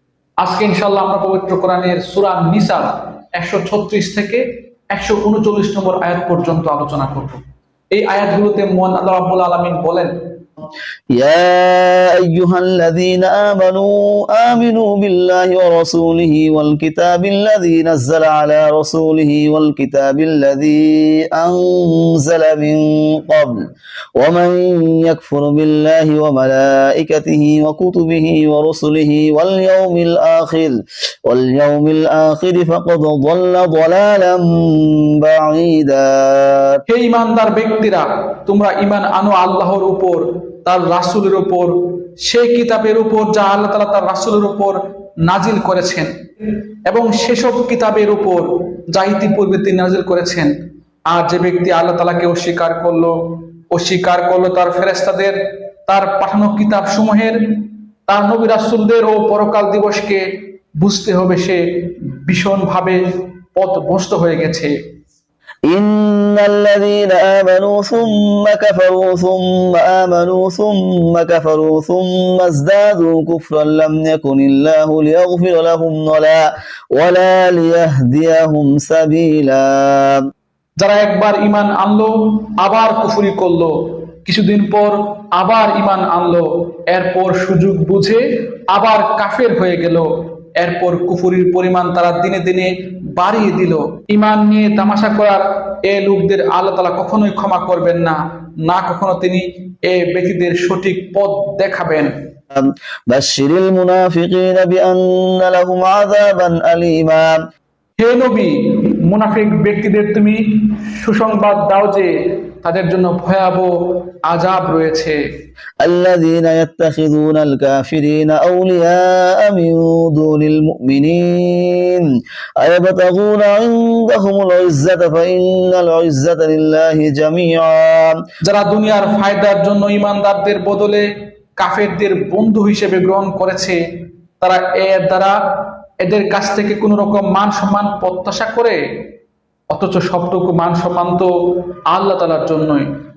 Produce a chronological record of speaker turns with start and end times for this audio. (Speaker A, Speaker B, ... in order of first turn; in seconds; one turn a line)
Speaker A: 0.4-7.4
Speaker A: 7.9-10.1
Speaker B: 11.1-23.6
Speaker B: 24.2-36.8
Speaker A: 36.9-50.5
Speaker A: 51.1-53.1
Speaker A: 53.7-55.4
Speaker A: 55.9-60.2
Speaker A: 60.8-61.6
Speaker A: 62.2-63.0
Speaker A: 63.5-64.7
Speaker B: 65.7-80.2
Speaker A: 80.8-83.7
Speaker A: 84.2-102.1
Speaker B: 102.5-107.4
Speaker A: 108.0-113.7
Speaker A: 114.3-115.2
Speaker B: 115.8-128.2
Speaker A: 128.4-131.1
Speaker A: 131.6-133.8
Speaker A: 134.4-135.4
Speaker A: 136.0-138.8
Speaker A: 139.7-141.3
Speaker A: 141.9-142.9